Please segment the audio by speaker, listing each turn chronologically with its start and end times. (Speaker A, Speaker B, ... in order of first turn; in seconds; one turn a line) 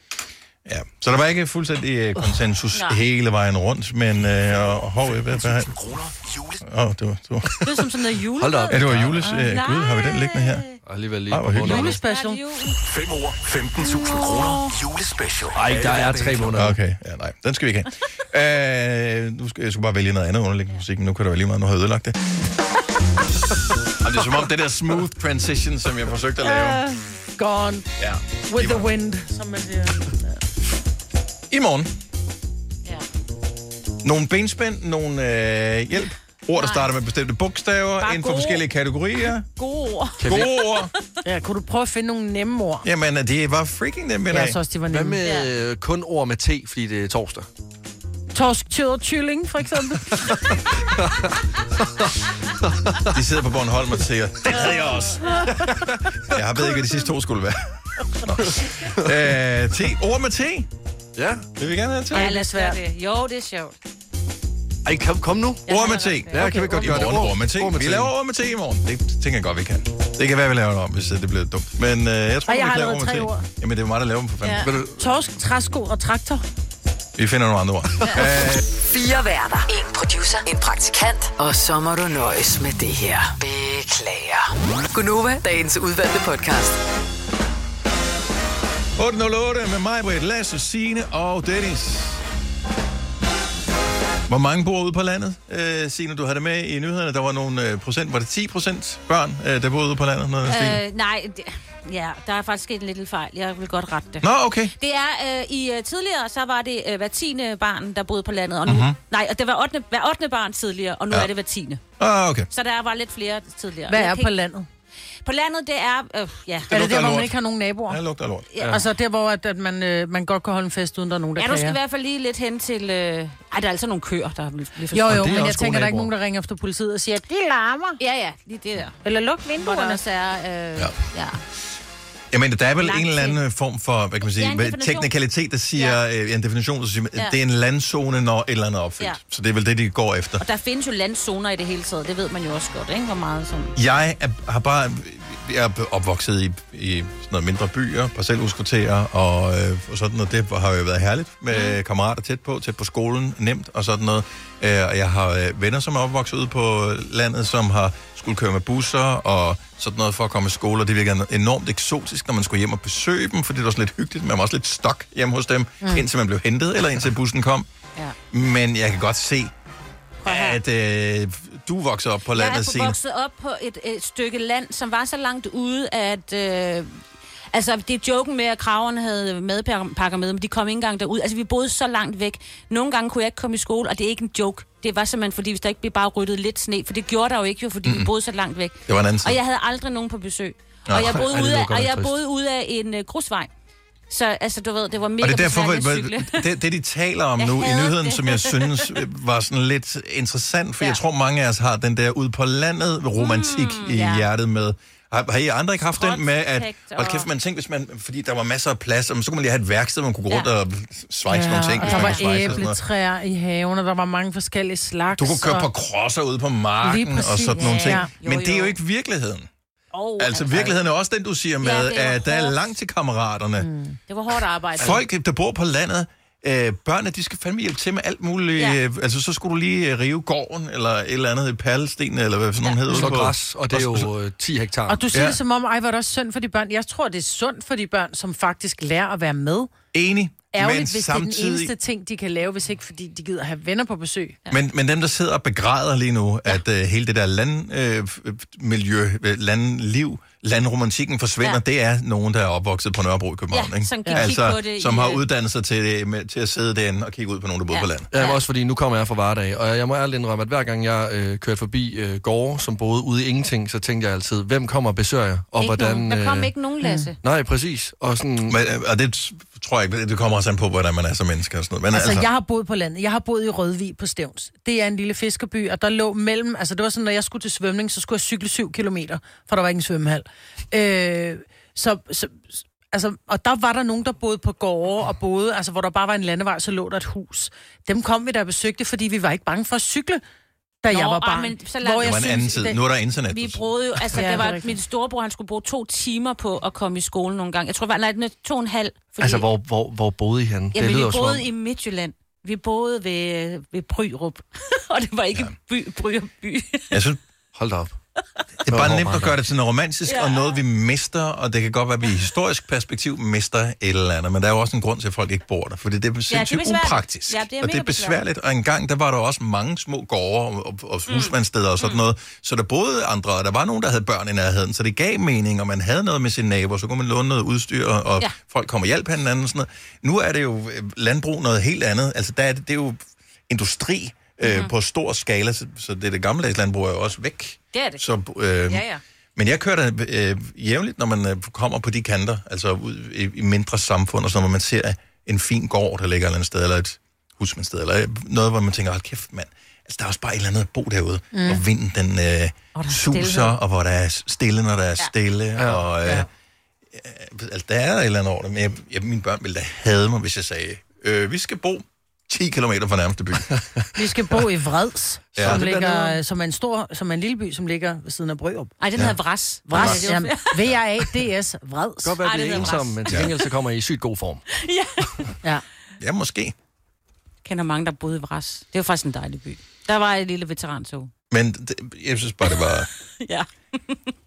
Speaker A: 0.7-5.8
Speaker B: 2.7-3.0
Speaker C: 4.9-6.7
Speaker A: 6.6-7.8
Speaker B: 7.6-10.8
Speaker D: 8.3-9.3
Speaker A: 8.7-10.7
Speaker D: 10.9-12.0
Speaker A: 11.3-11.9
Speaker E: 11.6-12.4
Speaker B: 11.7-12.8
Speaker C: 12.8-16.6
Speaker B: 13.8-14.7
Speaker D: 15.5-16.8
Speaker A: 16.5-22.2
Speaker A: 24.0-26.9
Speaker E: 26.4-27.9
Speaker A: 28.0-28.9
Speaker E: 28.5-30.4
Speaker A: 31.5-31.9
Speaker A: 34.0-39.5
Speaker B: 36.6-36.9
Speaker B: 38.0-38.6
Speaker B: 39.5-40.9
Speaker D: 40.2-40.5
Speaker A: 40.3-40.9
Speaker E: 41.2-42.9
Speaker A: 42.8-44.6
Speaker E: 44.3-45.2
Speaker D: 44.9-47.5
Speaker B: 45.2-45.5
Speaker E: 48.3-50.4
Speaker D: 50.3-52.1
Speaker D: 52.6-53.1
Speaker A: 53.1-55.3
Speaker D: 55.6-56.4
Speaker A: 56.3-60.7
Speaker D: 61.2-61.5
Speaker A: 61.6-62.3
Speaker E: 62.1-62.8
Speaker B: 62.1-63.8
Speaker D: 64.8-65.8
Speaker A: 65.7-74.8
Speaker B: 65.7-67.2
Speaker D: 66.3-68.1
Speaker E: 72.5-73.5
Speaker D: 74.7-74.9
Speaker E: 74.8-76.4
Speaker A: 77.2-78.6
Speaker F: 78.7-86.8
Speaker A: 89.0-92.2
Speaker A: 94.3-100.8
Speaker B: 100.5-111.8
Speaker A: 104.2-104.7
Speaker A: 108.7-109.0
Speaker A: 112.0-112.5
Speaker B: 112.5-114.3
Speaker E: 113.9-114.7
Speaker B: 115.2-116.7
Speaker A: 116.7-117.4
Speaker E: 116.7-118.0
Speaker A: 117.9-118.5
Speaker B: 118.5-118.8
Speaker E: 118.6-121.8
Speaker B: 121.4-125.3
Speaker E: 124.9-128.0
Speaker D: 125.1-126.1
Speaker B: 128.0-129.0
Speaker E: 129.0-130.0
Speaker B: 129.6-131.4
Speaker A: 132.3-140.4
Speaker B: 132.8-133.4
Speaker B: 134.3-135.1
Speaker B: 135.8-136.0
Speaker B: 140.4-143.8
Speaker A: 143.8-167.7
Speaker B: 151.5-151.8
Speaker A: 168.3-169.5
Speaker B: 170.2-170.6
Speaker A: 170.2-173.0
Speaker B: 172.3-193.5
Speaker A: 187.8-188.1
Speaker A: 188.9-189.4
Speaker A: 190.9-191.2
Speaker D: 191.0-192.1
Speaker B: 194.1-196.5
Speaker A: 195.2-212.8
Speaker B: 197.4-199.0
Speaker B: 203.2-204.3
Speaker B: 205.9-207.3
Speaker E: 211.3-215.7
Speaker B: 211.8-212.6
Speaker A: 215.2-219.5
Speaker E: 216.8-218.1
Speaker B: 217.6-218.8
Speaker B: 219.9-220.8
Speaker A: 220.2-223.7
Speaker B: 221.6-222.6
Speaker E: 223.6-224.0
Speaker B: 224.1-225.0
Speaker A: 224.8-234.1
Speaker D: 232.9-235.1
Speaker E: 234.9-239.7
Speaker A: 235.1-235.4
Speaker A: 239.9-241.7
Speaker E: 240.5-244.4
Speaker A: 244.5-258.1
Speaker B: 253.5-255.2
Speaker E: 254.1-254.3
Speaker B: 257.7-258.4
Speaker D: 258.1-266.5
Speaker B: 265.6-267.2
Speaker E: 266.8-267.1
Speaker D: 267.2-268.6
Speaker A: 268.5-272.3
Speaker E: 271.9-290.2
Speaker E: 290.8-292.7
Speaker B: 290.9-292.8
Speaker A: 292.0-294.3
Speaker B: 293.3-299.5
Speaker E: 294.1-294.7
Speaker D: 299.2-301.4
Speaker B: 300.7-307.0
Speaker A: 306.9-307.2
Speaker D: 307.6-307.9
Speaker A: 308.7-338.9
Speaker D: 308.7-309.4
Speaker B: 310.1-310.6
Speaker B: 316.3-318.2
Speaker B: 321.1-322.0
Speaker B: 334.4-334.7
Speaker B: 337.7-338.0
Speaker B: 338.7-339.0
Speaker A: 339.4-356.3
Speaker E: 351.3-351.6
Speaker B: 352.8-353.6
Speaker D: 355.6-355.8
Speaker A: 356.9-363.5
Speaker E: 363.9-368.7
Speaker A: 365.4-365.6
Speaker D: 365.4-366.2
Speaker B: 368.8-370.6
Speaker E: 369.7-372.2
Speaker A: 369.8-370.0
Speaker D: 372.0-374.4
Speaker B: 372.2-373.5
Speaker B: 374.5-375.3
Speaker A: 376.0-376.6
Speaker B: 377.4-381.1
Speaker A: 381.3-382.9
Speaker B: 382.5-384.0